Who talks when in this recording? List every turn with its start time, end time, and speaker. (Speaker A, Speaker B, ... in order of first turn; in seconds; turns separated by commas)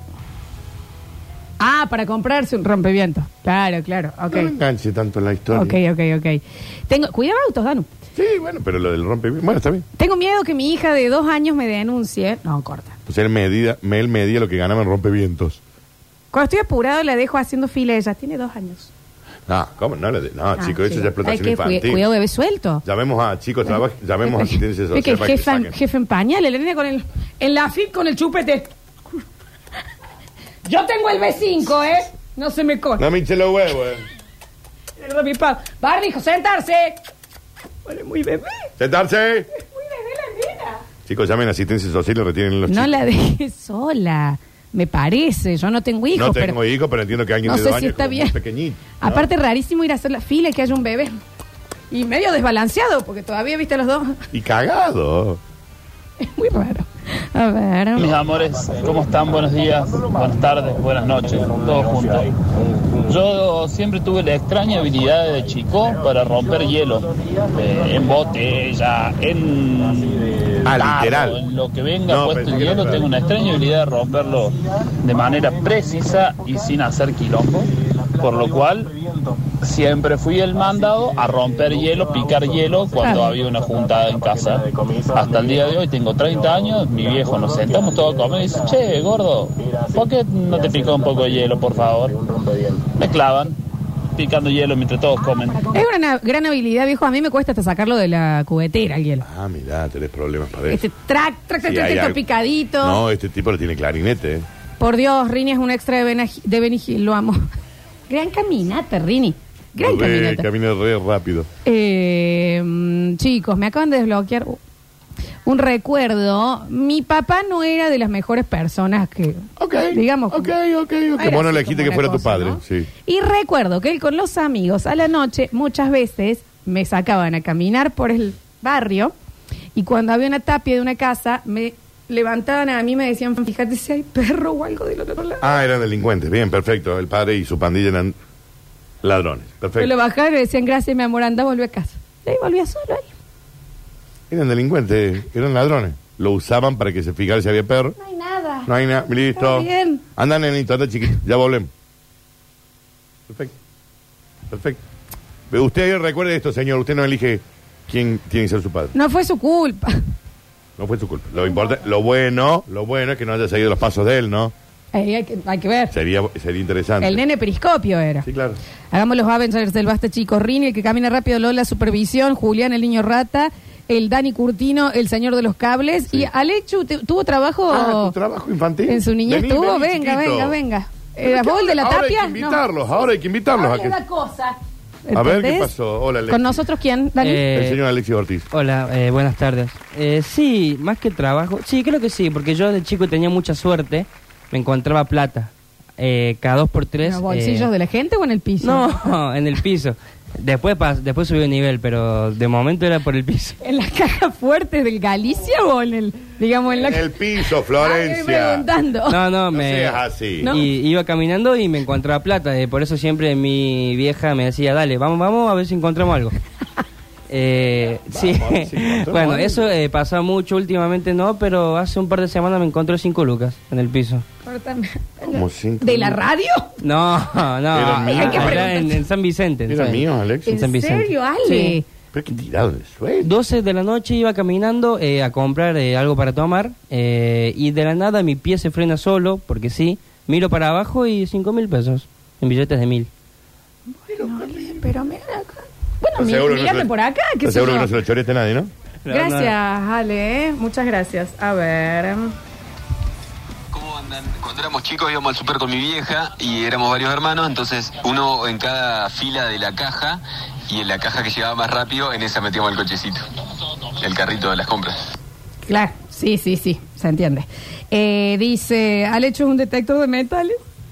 Speaker A: 1.6-4.5, Speaker B: 4.3-5.8, Speaker A: 5.5-7.9, Speaker B: 8.1-9.8, Speaker A: 10.0-12.9, Speaker B: 13.1-15.6, Speaker A: 16.3-18.9, Speaker B: 19.5-22.0, Speaker A: 20.6-22.8, Speaker B: 22.8-25.7, Speaker A: 24.2-28.7, Speaker A: 30.6-33.0, Speaker B: 33.0-34.0, Speaker A: 35.0-37.0, Speaker A: 37.9-38.7, Speaker B: 38.8-39.5, Speaker A: 39.5-40.8, Speaker B: 41.0-43.0, Speaker A: 42.7-46.6, Speaker B: 46.1-49.3, Speaker A: 47.4-48.4, Speaker A: 49.0-51.2, Speaker A: 51.9-54.2, Speaker B: 54.3-55.4, Speaker A: 56.2-58.1, Speaker C: 57.9-62.3, Speaker C: 63.0-79.0, Speaker B: 70.7-71.4, Speaker B: 72.1-73.1, Speaker C: 79.6-93.6, Speaker A: 83.0-83.3, Speaker C: 94.2-95.7, Speaker A: 95.7-99.2, Speaker B: 99.2-100.8, Speaker A: 100.7-103.0, Speaker B: 101.6-102.2, Speaker B: 102.8-104.5, Speaker A: 104.8-107.4, Speaker A: 108.1-110.5, Speaker B: 109.8-111.5, Speaker A: 111.6-114.6, Speaker A: 115.5-120.5, Speaker B: 119.6-122.9, Speaker A: 121.2-129.1, Speaker A: 129.8-135.5, Speaker B: 135.4-138.2, Speaker B: 139.0-139.9, Speaker A: 139.8-143.1, Speaker B: 144.3-147.9, Speaker A: 148.0-148.7, Speaker B: 148.7-151.7, Speaker A: 149.3-150.0, Speaker B: 153.3-153.5, Speaker B: 154.5-154.8, Speaker B: 155.5-158.9, Speaker A: 158.9-160.0, Speaker B: 160.8-164.5, Speaker A: 164.9-165.9, Speaker B: 165.9-167.2, Speaker A: 167.0-168.3, Speaker B: 168.2-168.6, Speaker A: 168.9-178.1, Speaker B: 177.7-180.6, Speaker A: 178.8-182.7, Speaker B: 181.2-184.0, Speaker A: 183.5-185.7, Speaker B: 185.1-186.7, Speaker A: 186.3-187.4, Speaker D: 187.2-187.8, Speaker B: 187.5-188.4, Speaker D: 188.5-197.7, Speaker A: 197.0-199.1, Speaker D: 198.6-203.6, Speaker A: 203.6-207.2, Speaker B: 206.7-208.7, Speaker A: 207.7-209.2, Speaker D: 209.1-216.3, Speaker B: 209.5-210.5, Speaker A: 210.4-210.7, Speaker D: 217.3-224.2, Speaker B: 218.1-219.7, Speaker A: 224.4-226.8, Speaker B: 225.3-226.2, Speaker D: 226.8-231.8, Speaker B: 227.7-228.7, Speaker A: 228.1-229.0, Speaker B: 229.7-230.6, Speaker A: 230.5-231.8, Speaker B: 232.1-233.3, Speaker D: 233.2-243.1, Speaker A: 244.0-247.9, Speaker B: 244.1-244.8, Speaker B: 246.2-246.9, Speaker B: 247.4-248.7, Speaker D: 249.1-249.5, Speaker A: 249.1-252.3, Speaker E: 253.7-263.2, Speaker E: 264.0-264.9, Speaker A: 265.6-270.6